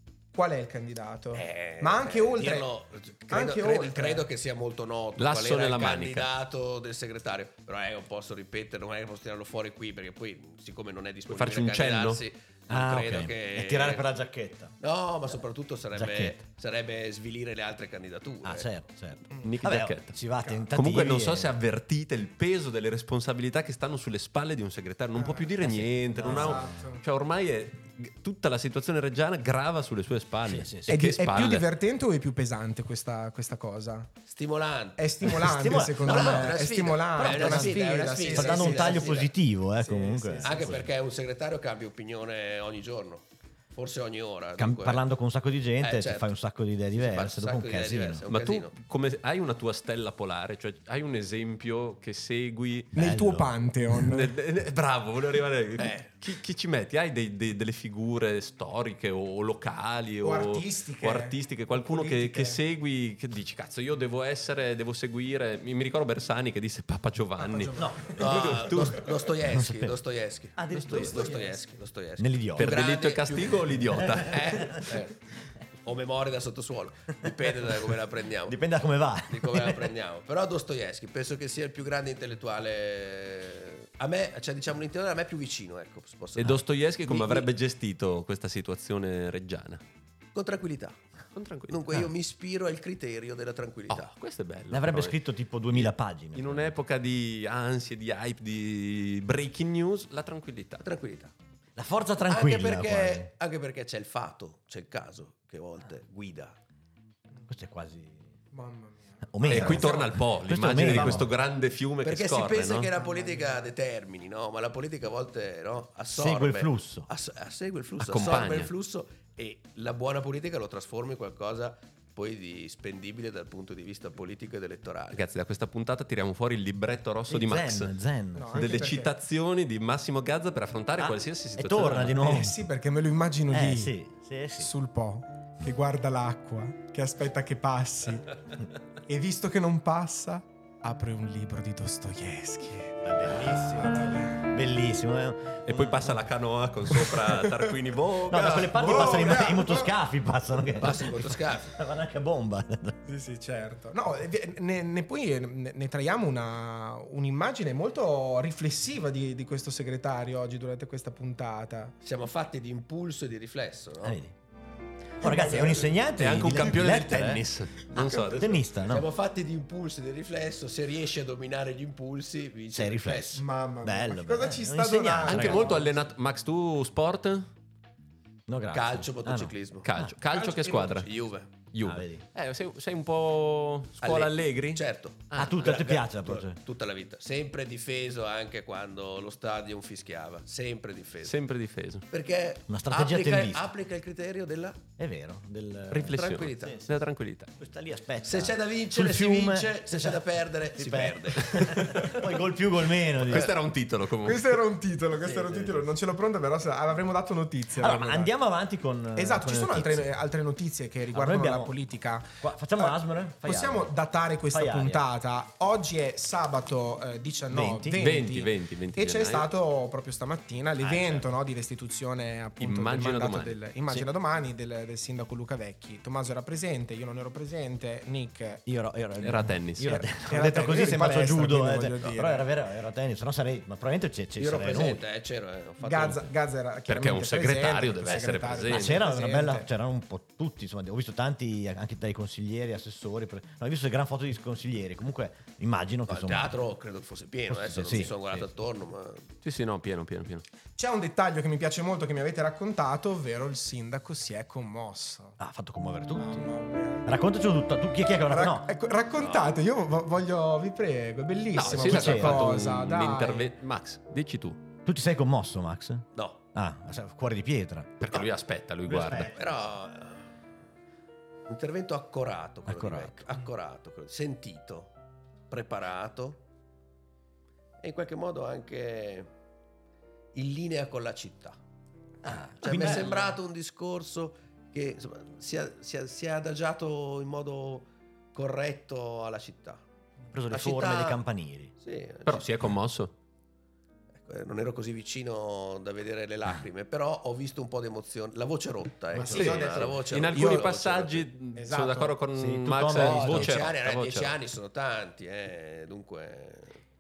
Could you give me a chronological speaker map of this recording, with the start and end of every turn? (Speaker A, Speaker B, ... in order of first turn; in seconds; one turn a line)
Speaker A: 0.3-2.7
Speaker B: 1.3-14.1
Speaker A: 3.3-4.3
Speaker C: 5.2-6.3
Speaker C: 11.3-12.2
Speaker D: 12.7-14.7
Speaker B: 14.8-18.7
Speaker D: 15.9-16.4
Speaker D: 18.4-21.5
Speaker C: 19.4-20.2
Speaker A: 20.4-20.7
Speaker C: 20.7-31.7
Speaker A: 25.2-25.5
Speaker D: 25.6-26.8
Speaker A: 26.2-27.0
Speaker D: 30.4-31.0
Speaker A: 30.9-34.1
Speaker B: 34.3-35.2
Speaker A: 35.0-39.1
Speaker D: 35.2-40.9
Speaker B: 36.0-39.3
Speaker A: 39.8-40.8
Speaker B: 40.4-45.0
Speaker D: 44.6-48.2
Speaker B: 45.8-46.3
Speaker B: 46.9-48.7
Speaker C: 48.3-52.9
Speaker D: 53.0-53.5
Speaker A: 53.0-54.3
Speaker C: 54.0-69.0
Speaker B: 55.8-56.1
Speaker A: 60.2-62.6
Speaker A: 67.4-68.4
Speaker D: 67.8-68.7
Speaker B: 68.2-75.2
Speaker D: 69.5-70.0
Speaker D: 70.6-71.4
Speaker A: 70.9-71.6
Speaker D: 72.2-72.8
Speaker C: 72.6-74.8
Speaker D: 74.0-74.8
Speaker B: 75.8-78.6
Speaker D: 78.5-79.9
Speaker B: 79.3-87.5
Speaker C: 86.4-89.8
Speaker B: 90.3-91.0
Speaker C: 91.3-92.0
Speaker B: 91.7-94.1
Speaker C: 93.9-95.2
Speaker D: 94.7-96.8
Speaker C: 95.7-100.9
Speaker B: 100.8-101.3
Speaker D: 101.8-103.3
Speaker B: 102.3-106.6
Speaker D: 107.5-108.2
Speaker A: 108.5-109.9
Speaker D: 109.2-111.3
Speaker C: 109.5-112.9
Speaker B: 109.6-110.1
Speaker B: 110.8-111.2
Speaker B: 112.0-125.2
Speaker A: 113.0-113.7
Speaker D: 116.1-117.1
Speaker C: 118.0-118.7
Speaker C: 125.1-128.0
Speaker D: 127.3-128.9
Speaker A: 128.3-129.1
Speaker C: 128.5-132.2
Speaker D: 131.0-132.6
Speaker A: 132.2-133.9
Speaker D: 133.5-134.7
Speaker A: 134.6-138.3
Speaker A: 139.1-144.4
Speaker D: 143.0-146.2
Speaker C: 145.7-149.4
Speaker A: 147.3-147.7
Speaker D: 148.3-153.0
Speaker A: 148.4-149.9
Speaker B: 150.8-151.8
Speaker A: 153.1-161.9
Speaker B: 162.0-164.2
Speaker D: 164.0-164.3
Speaker D: 165.2-167.4
Speaker A: 165.2-166.1
Speaker C: 166.2-168.6
Speaker A: 167.9-168.4
Speaker D: 168.2-169.1
Speaker B: 168.9-173.4
Speaker D: 172.7-175.9
Speaker A: 173.3-176.0
Speaker C: 175.3-177.5
Speaker D: 178.5-180.2
Speaker B: 178.7-179.9
Speaker C: 179.8-185.7
Speaker A: 180.3-180.9
Speaker B: 180.5-181.5
Speaker D: 181.8-182.2
Speaker B: 184.0-191.4
Speaker D: 185.3-186.6
Speaker C: 191.2-192.1
Speaker B: 192.1-194.8
Speaker D: 192.7-193.7
Speaker D: 195.0-196.9
Speaker C: 195.9-197.5
Speaker B: 196.1-196.8
Speaker D: 197.6-200.2
Speaker B: 198.2-202.0
Speaker D: 200.8-203.6
Speaker C: 203.2-204.6
Speaker A: 204.2-208.3
Speaker D: 207.8-210.1
Speaker A: 209.2-228.6
Speaker D: 211.1-211.7
Speaker D: 212.4-213.9
Speaker D: 214.5-215.1
Speaker D: 217.5-218.0
Speaker C: 218.0-219.5
Speaker D: 220.8-221.2
Speaker C: 222.6-223.6
Speaker D: 228.7-235.0
Speaker C: 229.2-230.0
Speaker A: 229.9-232.5
Speaker B: 234.4-236.3
Speaker A: 235.8-239.7
Speaker C: 236.9-239.0
Speaker D: 238.7-246.6
Speaker B: 246.1-249.3
Speaker D: 247.5-248.5
Speaker C: 249.4-250.4
Speaker A: 250.8-255.4
Speaker D: 255.4-258.7
Speaker A: 256.2-257.1
Speaker A: 258.3-263.5
Speaker B: 259.2-259.6
Speaker C: 261.5-264.6
Speaker D: 261.6-262.6
Speaker D: 264.9-268.1
Speaker B: 266.1-266.4
Speaker C: 268.0-269.3
Speaker D: 268.9-269.4
Speaker B: 269.1-270.3
Speaker B: 271.5-274.9
Speaker D: 272.7-273.3
Speaker B: 275.5-276.4
Speaker B: 277.8-279.3
Speaker B: 280.3-281.6
Speaker D: 282.2-283.3
Speaker B: 282.6-289.8
Speaker D: 290.3-291.7
Speaker B: 290.5-291.2
Speaker B: 291.8-292.5
Speaker C: 292.2-293.1
Speaker B: 294.2-301.3
Speaker D: 299.1-299.6
Speaker A: 299.1-300.7
Speaker C: 299.3-304.4
Speaker A: 301.6-302.2
Speaker D: 302.4-303.7
Speaker B: 302.9-306.8